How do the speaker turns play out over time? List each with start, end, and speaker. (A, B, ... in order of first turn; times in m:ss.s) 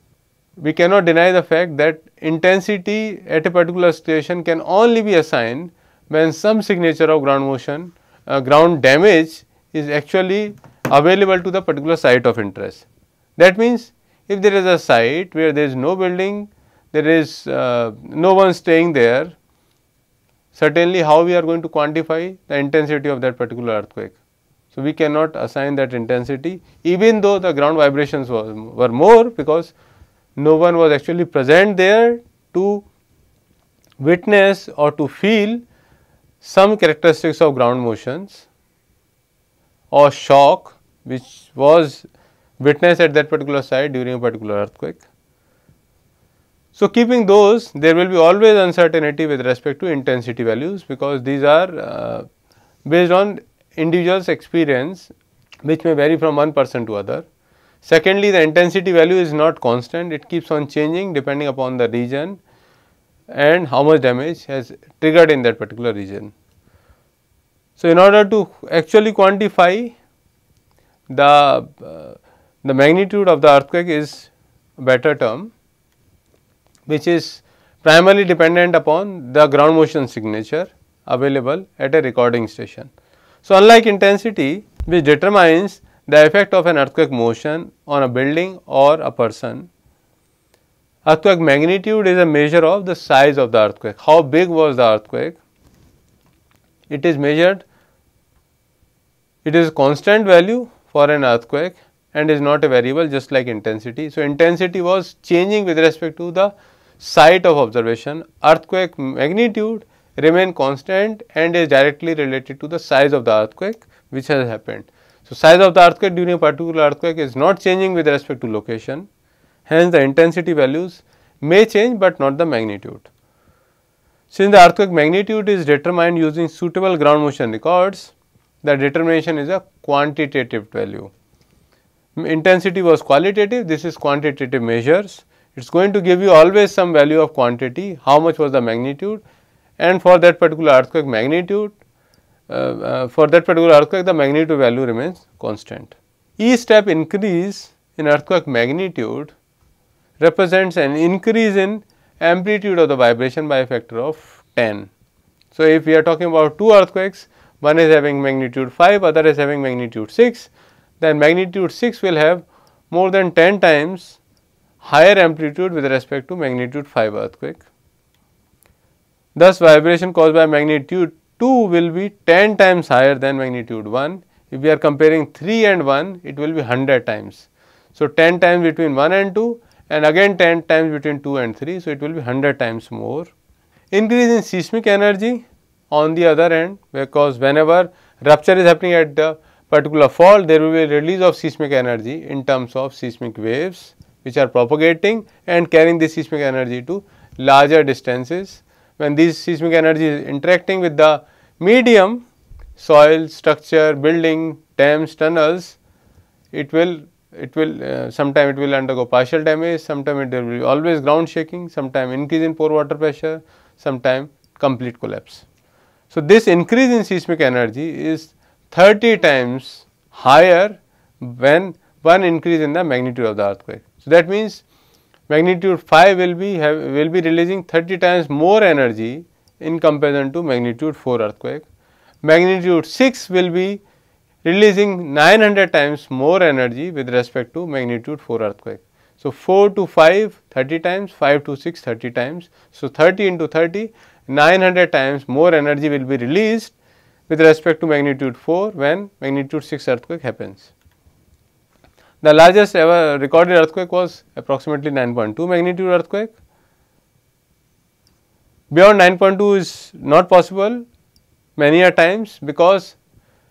0:00.6-0:12.8 A
0:13.4-0:19.3 A
0:20.5-0:24.2 A
0:24.7-0:29.7 A
0:30.4-0:32.8 A
0:34.0-0:35.6 A
0:36.4-0:38.4 A
0:39.9-0:42.1 A
0:42.6-0:45.0 A
0:46.8-0:52.3 A
0:52.8-0:55.1 A
0:55.6-0:57.2 A
0:57.8-1:02.4 A
1:03.3-1:06.3 A
1:07.8-1:09.9 A
1:11.1-1:15.5 A
1:16.9-1:22.9 A
1:23.4-1:29.7 A
1:31.0-1:35.4 A
1:36.9-1:37.6 A
1:39.4-1:59.1 A
1:59.7-2:03.1 A
2:04.3-2:11.1 A
2:12.2-2:19.2 A
2:19.8-2:21.8 A
2:22.5-2:29.3 A
2:30.2-2:34.9 A
2:35.5-2:44.2 A
2:44.8-2:47.6 A
2:49.3-3:03.3 A
3:03.9-3:22.2 A
3:22.8-3:25.8 A
3:26.5-3:35.4 A
3:36.1-3:44.6 A
3:45.3-3:51.6 A
3:52.2-3:53.8 A
3:54.4-4:06.7 A
4:07.3-4:10.7 A
4:12.2-4:16.3 A
4:18.7-4:20.8 A
4:21.6-4:23.0 A